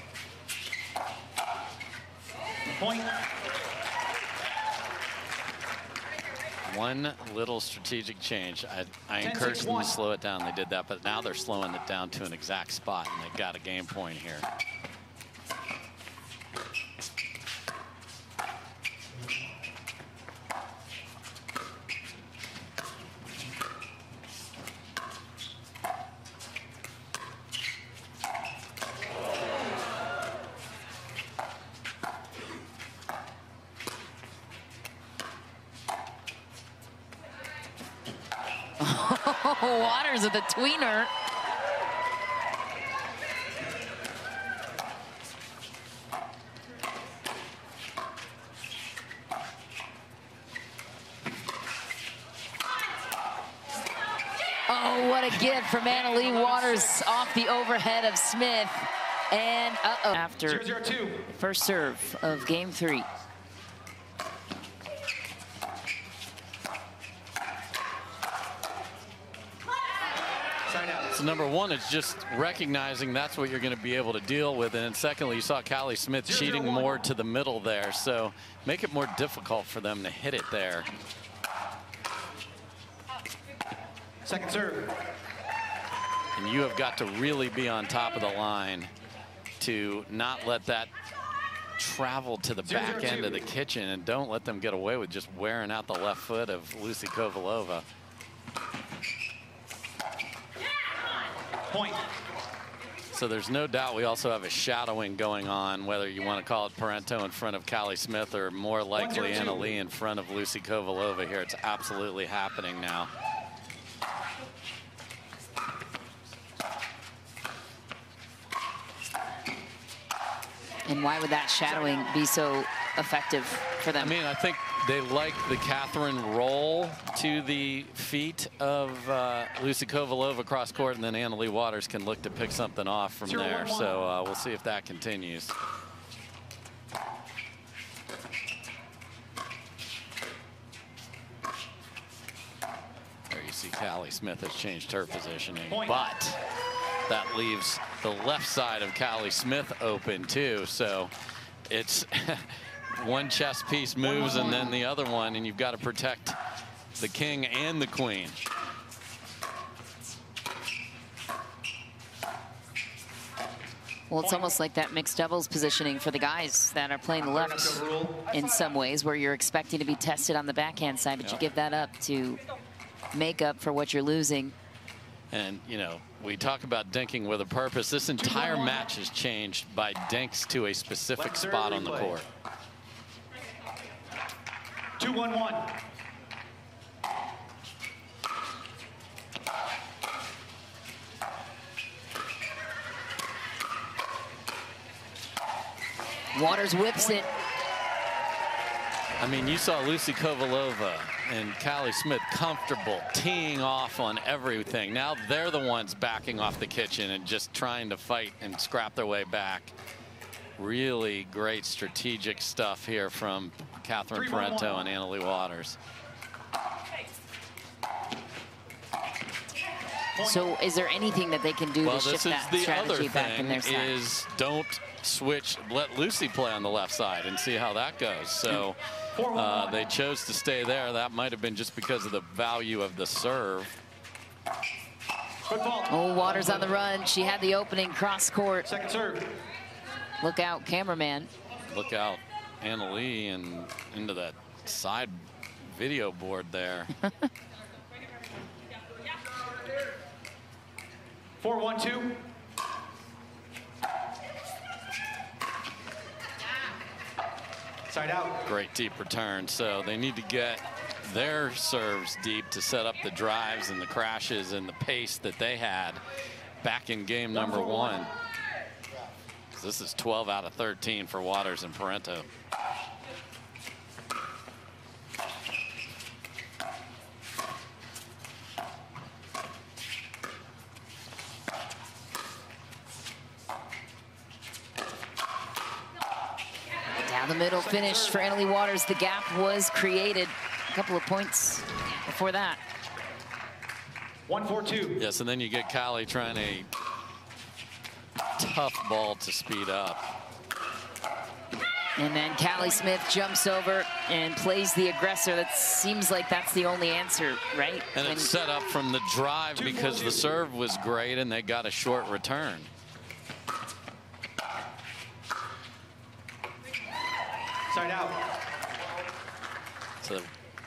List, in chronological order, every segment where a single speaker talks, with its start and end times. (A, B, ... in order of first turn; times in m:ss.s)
0:02.7-0:03.2 A
0:06.7-0:14.5 B
0:09.2-0:10.0 A
0:38.8-0:41.1 C
0:54.7-1:00.7 C
0:55.4-0:57.3 A
1:00.4-1:01.3 A
1:01.3-1:03.1 C
1:10.7-1:11.2 A
1:11.1-1:20.9 B
1:16.2-1:17.0 A
1:24.2-1:25.0 A
1:26.4-1:28.9 B
1:29.6-1:30.9 B
1:31.8-1:37.9 B
1:32.7-1:33.5 A
1:41.7-1:42.1 A
1:43.1-1:53.1 B
1:49.0-1:49.7 A
2:00.9-2:04.2 C
2:04.0-2:15.5 B
2:13.2-2:14.0 A
2:23.3-2:26.4 B
2:25.7-2:26.1 A
2:27.1-2:31.1 B
2:31.7-2:36.4 B
2:34.0-2:34.8 A
2:37.0-2:38.4 B
2:44.1-2:52.4 C
2:44.2-2:44.6 A
2:47.2-2:48.3 A
2:53.1-2:54.5 C
2:55.3-3:02.3 B
2:58.2-2:58.9 A
3:01.2-3:02.2 A
3:05.0-3:05.8 A
3:16.3-3:17.3 C
3:19.2-3:29.7 B
3:30.6-3:35.8 B
3:34.1-3:34.9 A
3:40.2-3:40.6 A
3:40.2-3:44.0 C
3:41.8-3:53.7 B
3:49.1-3:49.9 A
3:55.5-3:56.8 A
3:55.9-3:58.7 C
3:58.6-3:59.4 A
4:00.2-4:01.3 C
4:01.7-4:06.9 B
4:11.4-4:12.2 A
4:17.9-4:18.4 A
4:18.5-4:26.0 B
4:26.6-4:28.1 B
4:27.3-4:28.1 A
4:29.5-4:32.3 B
4:47.0-4:52.6 C
4:47.5-4:48.4 A
4:54.3-4:55.0 A
4:55.0-4:56.7 B
4:58.4-5:00.0 B
5:02.0-5:08.3 C
5:02.6-5:02.9 A
5:07.9-5:12.7 B
5:09.6-5:10.4 A
5:17.7-5:18.3 A
5:20.0-5:20.3 B